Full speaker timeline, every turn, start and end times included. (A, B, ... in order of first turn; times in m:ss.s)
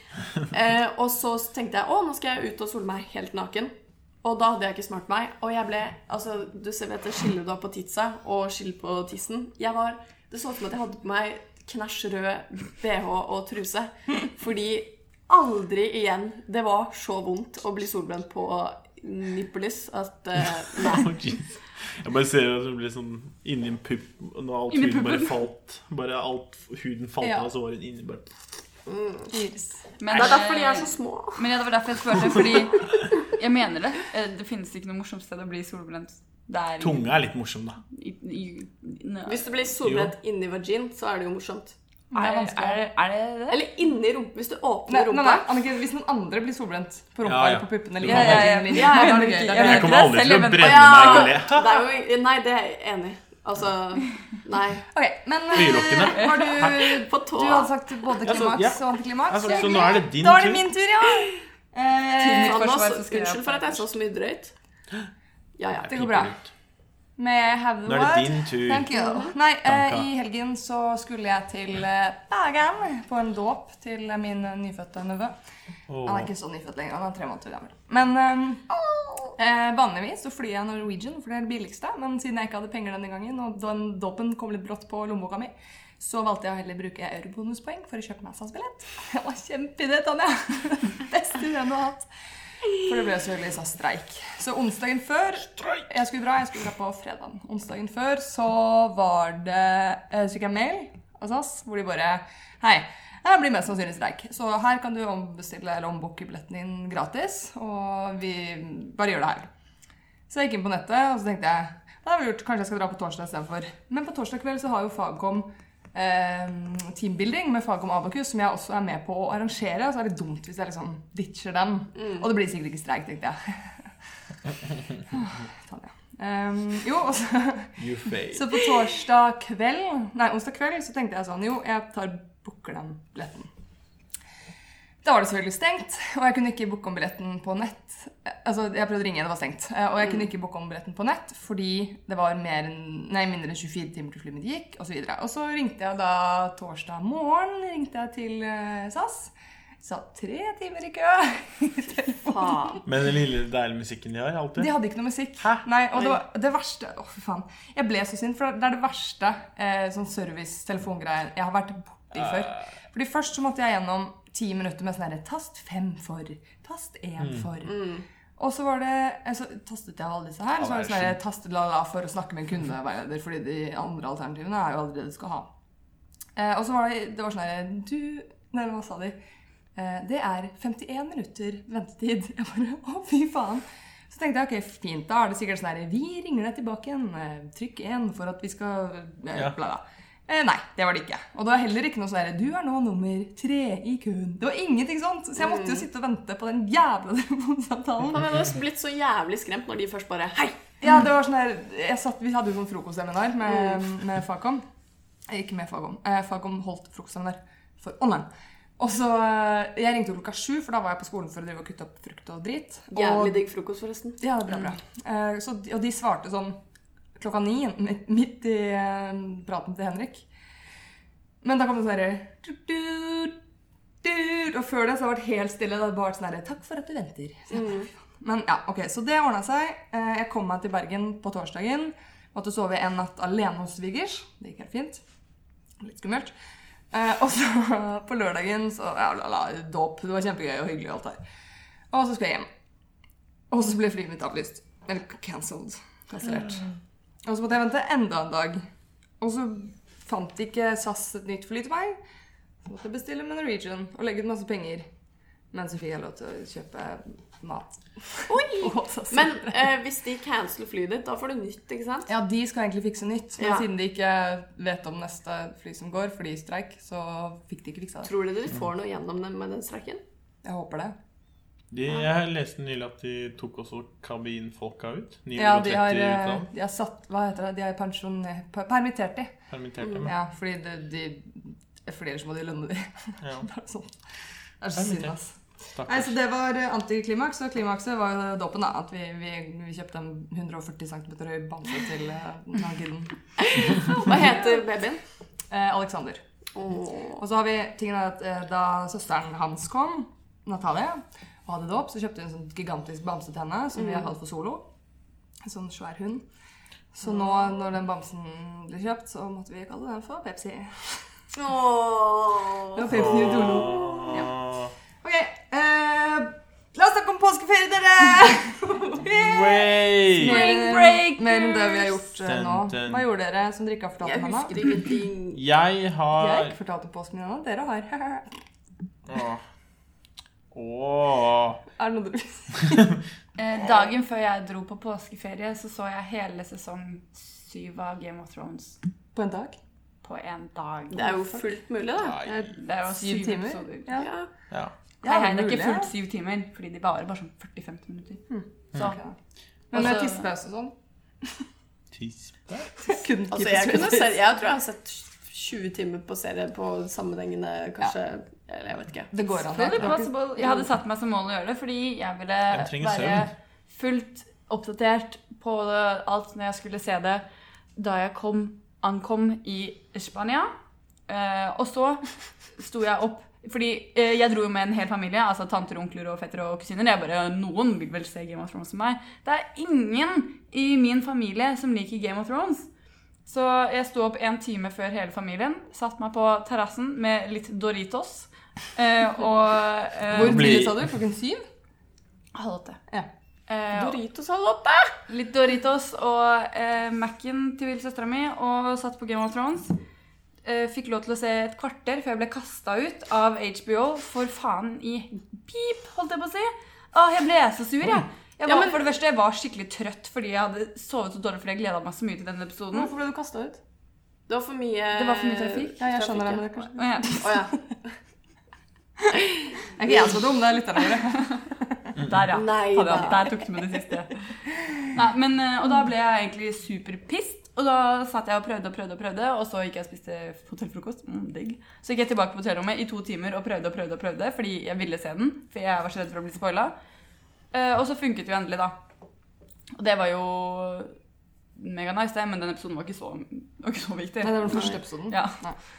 0:00.4-0:21.1 A
0:20.8-0:28.3 B
0:24.7-0:25.4 C
0:27.2-0:27.5 D
0:28.9-0:29.3 A
0:29.3-0:29.8 D
0:30.0-0:37.1 C
0:30.1-0:31.4 A
0:36.8-0:37.8 B
0:37.9-0:39.6 C
0:39.2-0:41.7 A
0:39.8-0:40.1 B
0:42.1-0:42.8 D
0:42.1-0:43.6 C
0:43.5-0:45.5 A
0:44.9-0:50.0 D
0:47.2-0:48.8 B
0:48.0-0:51.3 C
0:48.8-0:49.4 A
0:49.5-0:51.8 B
0:50.6-0:54.8 A
0:54.9-1:02.7 D
0:55.5-0:56.9 B
0:56.1-0:56.6 C
0:56.5-0:57.7 A
0:58.2-1:00.7 B
1:02.2-1:03.9 C
1:02.4-1:04.5 A
1:05.6-1:06.2 A
1:05.9-1:06.3 D
1:05.9-1:06.5 B
1:07.2-1:15.4 D
1:07.8-1:08.9 B
1:08.9-1:09.3 A
1:09.6-1:10.1 B
1:15.9-1:16.3 B
1:16.0-1:18.8 D
1:19.3-1:32.1 D
1:32.7-1:49.5 D
1:35.6-1:35.9 B
1:50.3-2:03.9 D
2:02.0-2:02.2 A
2:05.1-2:07.8 D
2:07.8-2:08.5 B
2:08.3-2:13.5 D
2:15.0-2:32.8 D
2:32.3-2:32.8 A
2:32.8-2:34.7 B
2:34.6-2:55.5 D
2:47.6-2:48.0 A
2:50.6-2:51.2 B
2:56.4-2:59.2 D
2:59.7-3:18.3 D
3:15.4-3:15.8 A
3:18.1-3:20.7 A
3:20.8-3:24.6 D
3:25.3-3:33.4 D
3:32.9-3:34.2 A
3:34.2-3:36.6 D
3:37.2-3:40.2 D
3:41.4-3:43.4 D
3:44.0-3:55.0 D
3:47.5-3:47.9 A
3:55.8-3:56.3 D
3:56.9-4:01.2 D
4:01.9-4:02.5 D
4:03.5-4:06.6 D
4:07.2-4:08.6 D
4:09.2-4:12.0 D
4:12.6-4:14.9 D
4:15.5-4:19.6 D
4:18.3-4:22.1 A
4:22.1-4:28.1 D
4:23.4-4:23.6 A
4:28.0-4:30.0 A
4:30.4-4:31.0 D
4:31.7-4:36.4 B
4:35.4-4:39.3 D
4:39.5-4:40.1 B
4:40.0-4:44.0 D
4:43.2-4:43.5 B
4:44.6-4:54.4 D
4:44.8-4:45.1 B
4:45.7-4:46.2 B
4:53.4-4:55.0 A
4:55.5-4:56.2 D
4:56.5-4:57.2 A
4:57.2-5:04.7 D
5:03.8-5:04.1 A
5:05.4-5:06.2 D
5:06.9-5:11.0 D
5:11.3-5:12.9 A
5:12.7-5:14.3 D
5:12.9-5:14.7 B
5:15.0-5:24.7 D
5:19.2-5:20.5 B
5:20.2-5:22.0 C
5:22.2-5:23.0 B
5:24.0-5:25.4 A
5:25.3-5:26.5 B
5:26.1-5:28.4 D
5:29.1-5:29.4 B
5:30.5-5:31.6 B
5:31.8-5:32.9 D
5:33.4-5:38.8 C
5:39.1-5:39.6 D
5:40.0-5:41.4 C
5:40.9-5:42.5 A
5:42.0-5:42.5 B
5:42.5-5:44.0 C
5:42.9-5:44.1 D
5:43.9-5:44.3 A
5:45.0-5:45.9 D
5:45.0-5:48.2 C
5:48.3-5:49.2 D
5:49.7-5:51.4 D
5:49.7-5:50.3 C
5:51.9-5:52.7 B
5:52.8-5:54.2 D
5:53.3-5:59.1 A
5:59.1-6:00.1 D
5:59.5-6:07.2 C
6:02.5-6:03.3 B
6:07.8-6:10.5 C
6:11.1-6:22.7 C
6:23.2-6:30.5 C
6:30.1-6:31.4 D
6:30.1-6:30.9 B
6:32.3-6:32.8 C
6:33.5-6:34.0 C
6:33.7-6:34.9 A
6:35.1-6:39.7 C
6:40.4-6:52.9 C
6:48.4-6:48.8 A
6:52.7-6:53.6 D
6:54.3-6:56.5 A
6:54.9-6:55.8 C
6:55.8-6:57.5 D
6:56.7-6:57.2 C
6:57.2-6:57.6 A
6:59.1-7:00.1 A
6:59.8-7:01.9 D
7:02.0-7:04.2 C
7:02.3-7:03.4 A
7:04.9-7:16.7 C
7:17.5-7:18.8 C
7:19.8-7:20.9 C
7:21.6-7:25.4 C
7:24.2-7:25.6 D